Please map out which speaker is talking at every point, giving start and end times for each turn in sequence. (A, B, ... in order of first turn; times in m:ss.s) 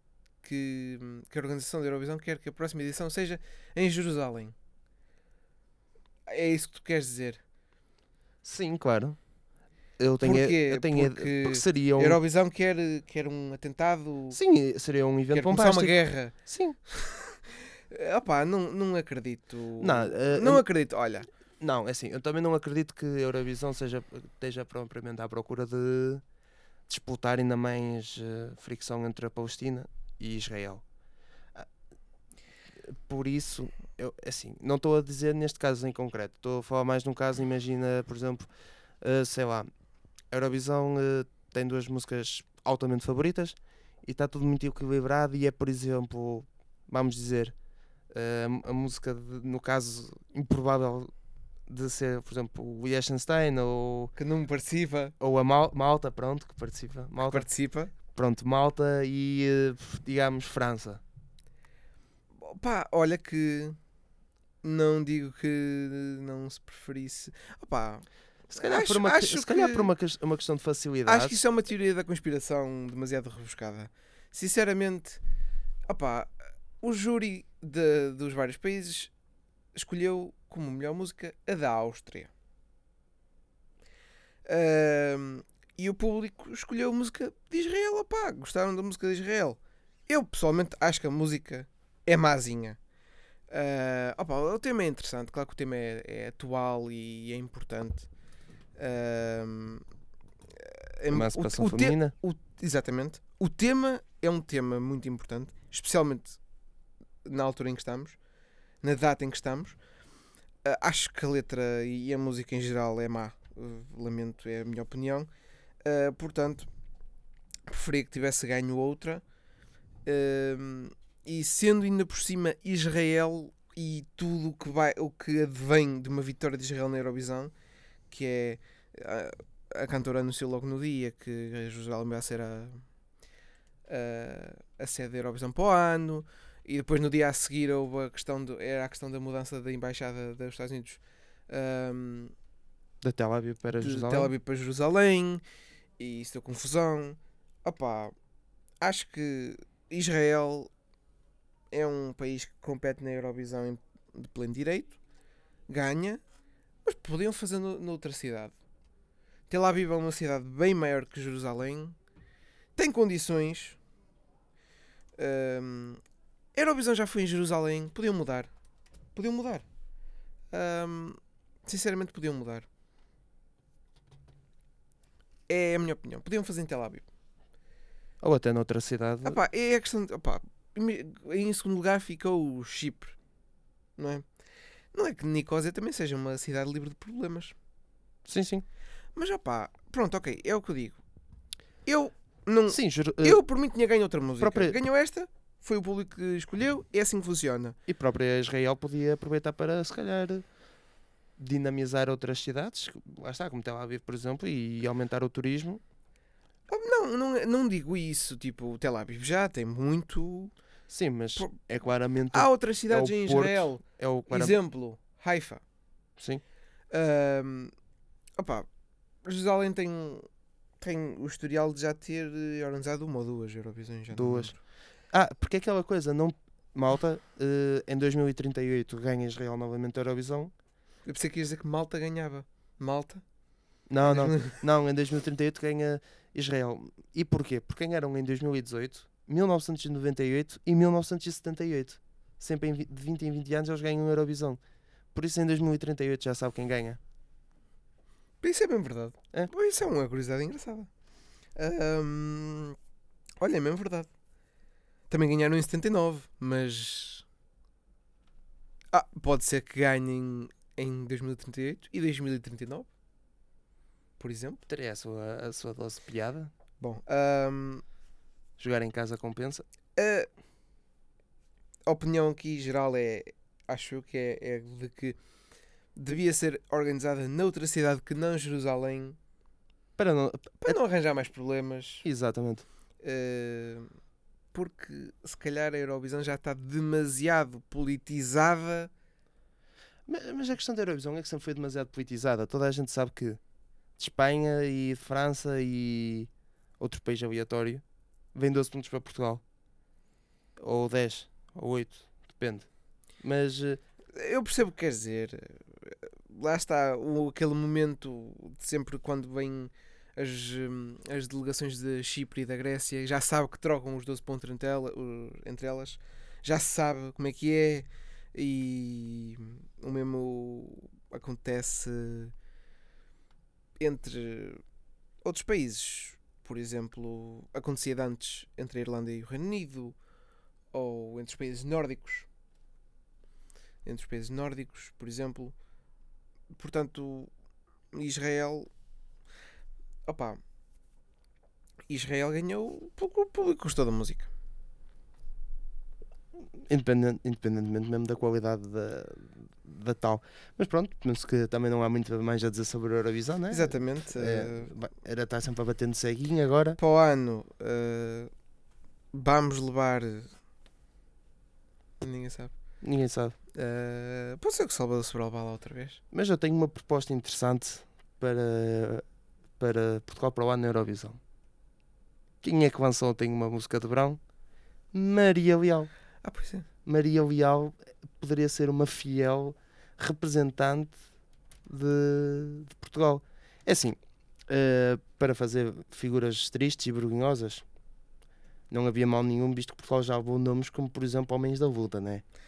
0:00.4-0:04.6 A
0:06.3-0:07.4 A
0:08.4-0:09.2 B
0:10.0-0:12.2 B
0:10.2-0:14.4 A
0:14.3-0:16.8 B
0:15.3-0:16.4 A
0:16.9-0:17.4 A
0:17.9-0:21.3 A
0:19.8-0:20.6 B
0:21.6-0:26.2 B
0:26.9-0:30.8 B
0:32.8-0:38.5 B
0:39.0-0:39.7 B
0:40.3-0:47.6 B
0:48.1-0:51.1 B
0:51.7-0:54.1 B
0:54.2-0:55.1 A
0:55.2-0:57.5 B
0:57.2-0:57.9 A
0:58.1-1:01.0 B
1:02.4-1:03.8 A
1:04.6-1:08.1 A
1:08.5-1:11.4 B
1:08.6-1:09.9 A
1:11.1-1:15.2 A
1:15.9-1:19.1 A
1:19.7-1:22.3 A
1:24.4-1:32.8 A
1:33.5-1:38.1 A
1:38.8-1:39.8 A
1:40.6-1:46.4 A
1:41.1-1:42.2 B
1:47.2-1:48.2 A
1:48.8-1:49.8 A
1:50.6-1:55.3 A
1:55.8-1:56.7 A
1:57.7-1:59.2 A
2:00.0-2:07.5 A
2:08.1-2:12.9 A
2:13.9-2:22.3 A
2:23.0-2:24.3 B
2:23.8-2:25.4 A
2:26.0-2:28.1 A
2:28.8-2:30.7 A
2:31.7-2:35.0 A
2:35.7-2:36.2 A
2:36.8-2:38.6 A
2:39.5-2:42.0 A
2:42.8-2:43.8 A
2:45.2-2:46.0 A
2:46.6-2:48.5 A
2:49.2-2:49.6 A
2:50.5-2:52.7 A
2:55.5-2:57.1 A
2:58.2-2:59.4 B
2:59.2-3:03.2 A
3:04.0-3:04.2 A
3:04.9-3:07.6 A
3:08.3-3:08.6 B
3:09.2-3:11.0 A
3:11.9-3:17.8 A
3:12.7-3:13.4 B
3:14.4-3:14.8 B
3:17.9-3:20.4 B
3:21.4-3:25.8 B
3:26.7-3:30.6 A
3:30.9-3:34.6 B
3:32.3-3:35.6 A
3:36.9-3:37.7 A
3:38.4-3:38.7 A
3:39.2-3:40.3 A
3:40.8-3:44.6 A
3:44.1-3:44.5 B
3:45.1-3:50.5 B
3:51.0-3:53.2 A
3:53.9-4:04.6 B
3:54.0-3:54.6 A
4:05.1-4:07.0 B
4:08.4-4:10.9 A
4:11.6-4:12.8 A
4:13.4-4:14.1 A
4:15.1-4:17.2 A
4:18.9-4:22.9 A
4:24.2-4:24.6 A
4:24.7-4:26.5 B
4:26.8-4:27.8 A
4:28.6-4:29.6 B
4:30.0-4:30.3 A
4:31.9-4:35.2 A
4:36.0-4:39.2 A
4:40.0-4:40.8 B
4:40.6-4:42.0 A
4:42.0-4:42.6 B
4:43.0-4:43.9 A
4:44.5-4:48.9 A
4:50.1-4:53.4 B
4:54.0-4:57.8 B
4:58.3-4:59.4 B
5:00.6-5:03.8 B
5:04.2-5:22.3 A
5:23.8-5:24.6 A
5:25.2-5:30.0 A
5:30.7-5:32.3 A
5:33.8-5:35.6 A
5:36.5-5:37.3 A
5:37.9-5:38.7 A
5:40.1-5:40.4 A
5:41.9-5:44.3 A
5:46.6-5:56.8 B
5:53.5-5:54.7 A
5:56.8-5:58.3 A
5:59.1-6:00.4 A
6:02.0-6:02.5 A
6:02.8-6:03.4 B
6:03.5-6:06.0 A
6:06.1-6:09.0 B
6:09.6-6:11.2 B
6:12.4-6:14.2 B
6:14.9-6:15.9 B
6:16.2-6:16.7 A
6:16.8-6:21.0 B
6:21.7-6:27.6 B
6:28.7-6:32.2 B